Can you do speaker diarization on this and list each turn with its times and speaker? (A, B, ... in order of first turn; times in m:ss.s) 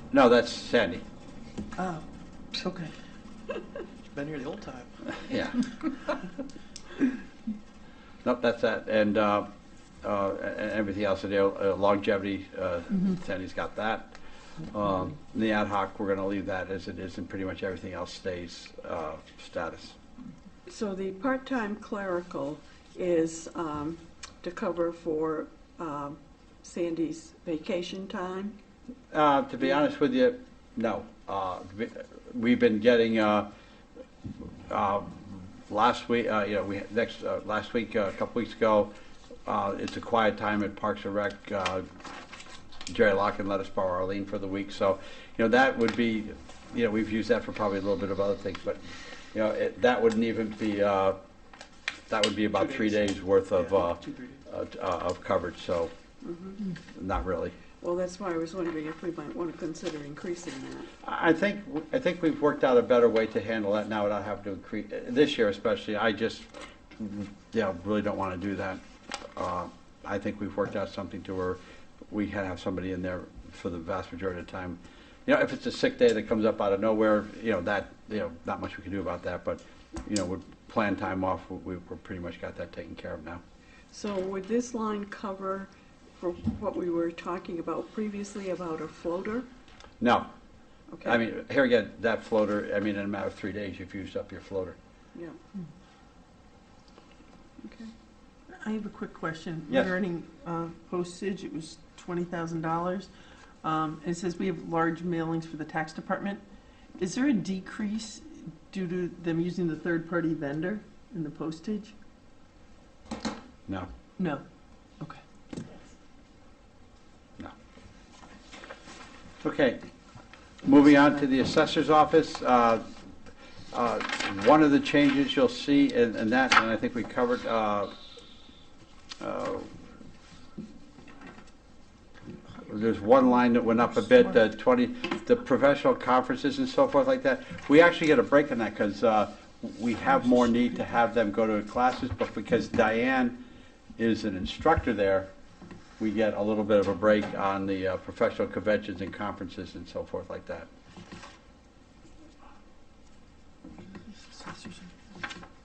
0:00.1-0:01.0 A
0:01.8-0:02.9 B
0:04.1-0:04.9 C
0:05.0-0:05.9 A
0:08.2-0:14.2 A
0:14.7-0:20.0 A
0:20.7-0:28.6 D
0:29.1-0:33.5 A
0:34.7-0:38.9 A
0:39.4-0:41.8 A
0:42.9-0:51.2 A
0:52.1-0:55.9 A
0:52.5-0:54.4 C
0:56.2-0:56.6 D
0:56.9-0:57.6 A
0:57.8-1:00.9 D
1:01.0-1:08.8 A
1:09.4-1:11.6 A
1:12.1-1:23.4 A
1:23.9-1:29.5 D
1:30.0-1:30.3 A
1:30.9-1:31.2 D
1:31.0-1:34.8 A
1:37.6-1:37.9 D
1:38.5-1:43.1 B
1:39.7-1:39.9 A
1:43.6-1:46.4 B
1:47.0-1:51.9 B
1:54.2-1:54.4 B
1:59.4-1:59.8 A
2:00.6-2:02.8 A
2:03.7-2:07.9 A
2:09.2-2:09.7 A
2:12.6-2:23.4 A
2:24.0-2:25.3 A
2:26.0-2:30.7 A
2:34.2-2:34.9 B